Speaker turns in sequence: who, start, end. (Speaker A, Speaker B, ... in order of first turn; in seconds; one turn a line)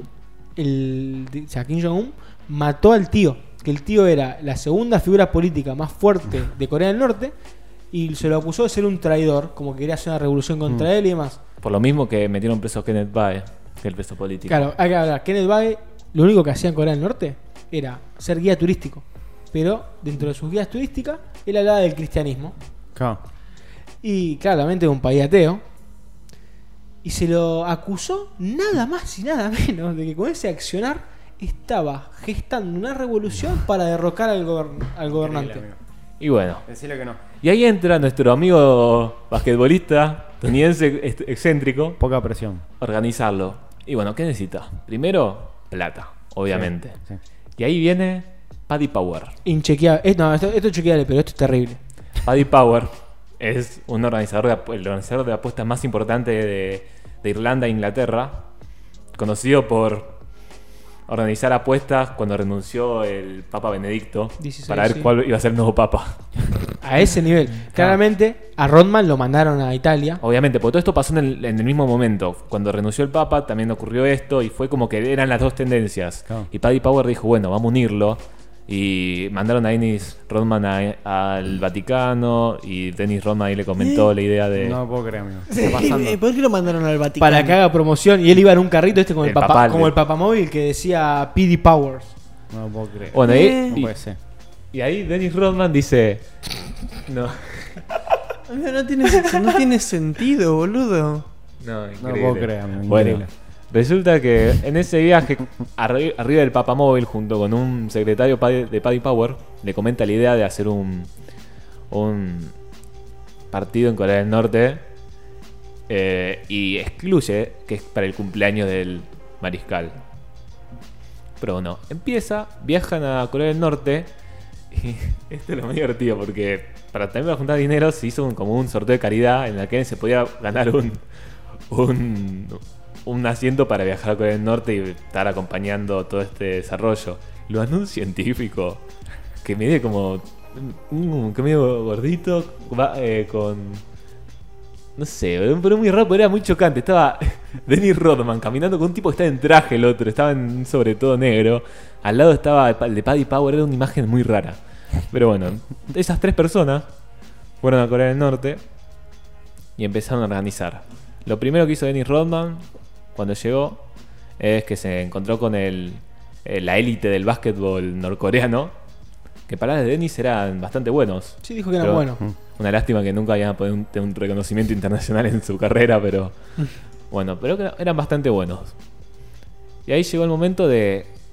Speaker A: 0.6-7.3
Speaker A: 7.9-11.4
Speaker B: 11.6-14.7
Speaker A: 14.5-22.6
Speaker C: 22.9-23.2
Speaker A: 24.0-25.6
Speaker A: 27.0-35.7
Speaker C: 35.2-35.8
Speaker B: 36.2-36.7
Speaker C: 36.7-37.2
Speaker B: 37.4-42.0
Speaker C: 42.0-42.6
Speaker B: 42.8-47.0
Speaker C: 46.5-47.2
Speaker B: 47.6-49.4
Speaker A: 49.5-51.8
Speaker B: 52.2-58.5
Speaker B: 59.1-60.1
Speaker B: 61.1-66.2
Speaker A: 64.4-65.1
Speaker A: 66.8-70.2
Speaker B: 70.2-84.8
Speaker D: 83.8-84.1
Speaker C: 84.5-86.2
Speaker A: 85.5-85.9
Speaker D: 85.7-87.6
Speaker A: 87.2-92.1
Speaker B: 89.2-90.0
Speaker C: 92.5-94.2
Speaker B: 93.1-93.9
Speaker D: 93.2-93.8
Speaker B: 94.7-96.3
Speaker B: 97.1-97.9
Speaker D: 98.5-101.3
Speaker B: 101.6-111.1
Speaker C: 102.0-103.3
Speaker B: 111.9-112.5
Speaker B: 113.5-114.8
Speaker B: 115.9-120.0
Speaker B: 121.4-124.1
Speaker B: 124.7-131.0
Speaker B: 131.7-138.8
Speaker B: 139.4-143.8
Speaker B: 145.0-154.6
Speaker B: 155.1-156.9
Speaker B: 157.6-158.6
Speaker B: 159.8-162.6
Speaker B: 163.2-163.8
Speaker B: 164.4-168.7
Speaker B: 169.5-176.3
Speaker A: 171.4-172.2
Speaker B: 177.1-178.8
Speaker B: 179.9-181.1